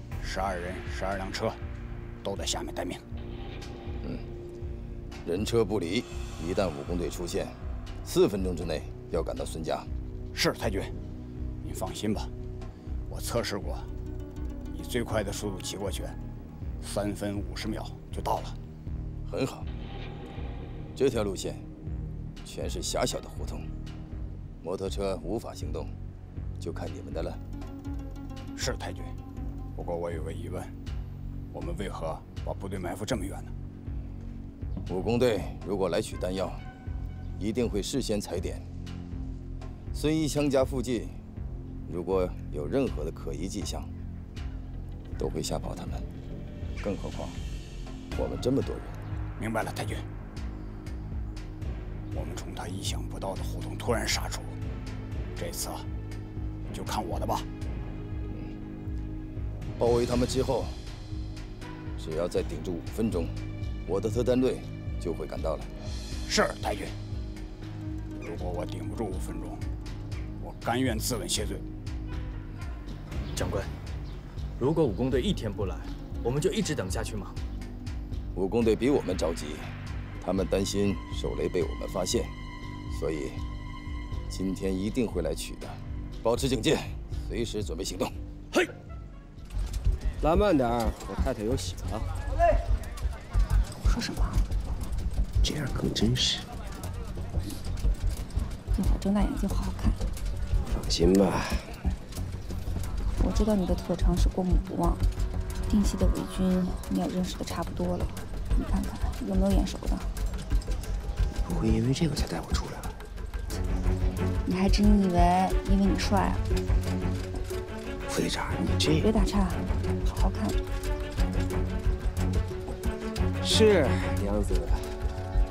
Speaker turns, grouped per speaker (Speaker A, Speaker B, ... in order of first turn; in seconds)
Speaker A: 0.2-1.6, 2.2-3.0, 10.3-10.9, 11.6-12.3, 13.1-13.9, 14.7-16.2, 16.8-18.6, 28.6-29.1, 29.8-30.7, 31.5-33.5, 49.4-50.1, 52.1-54.6, 55.4-55.9, 56.7-57.5, 66.3-67.0, 68.2-69.6, 70.4-71.7
Speaker B: 4.0-4.3, 5.2-9.9, 19.3-19.7, 20.9-21.7, 22.4-23.7, 24.6-25.9, 26.6-27.4, 34.9-36.6, 37.4-38.7, 39.9-41.2, 41.9-43.9, 45.2-46.1, 46.8-47.4, 48.1-49.0, 58.3-58.5, 59.8-60.8, 62.0-63.4, 63.9-65.7, 78.3-82.3, 82.9-83.4, 84.3-88.2
Speaker C: 73.3-73.7, 74.6-77.4
Speaker D: 90.2-92.1, 95.4-96.5, 100.7-101.8, 111.4-113.0, 118.1-119.1, 123.4-124.9
Speaker E: 93.8-94.4, 98.8-100.0, 103.2-105.0, 105.7-110.1, 114.5-116.4, 118.9-120.6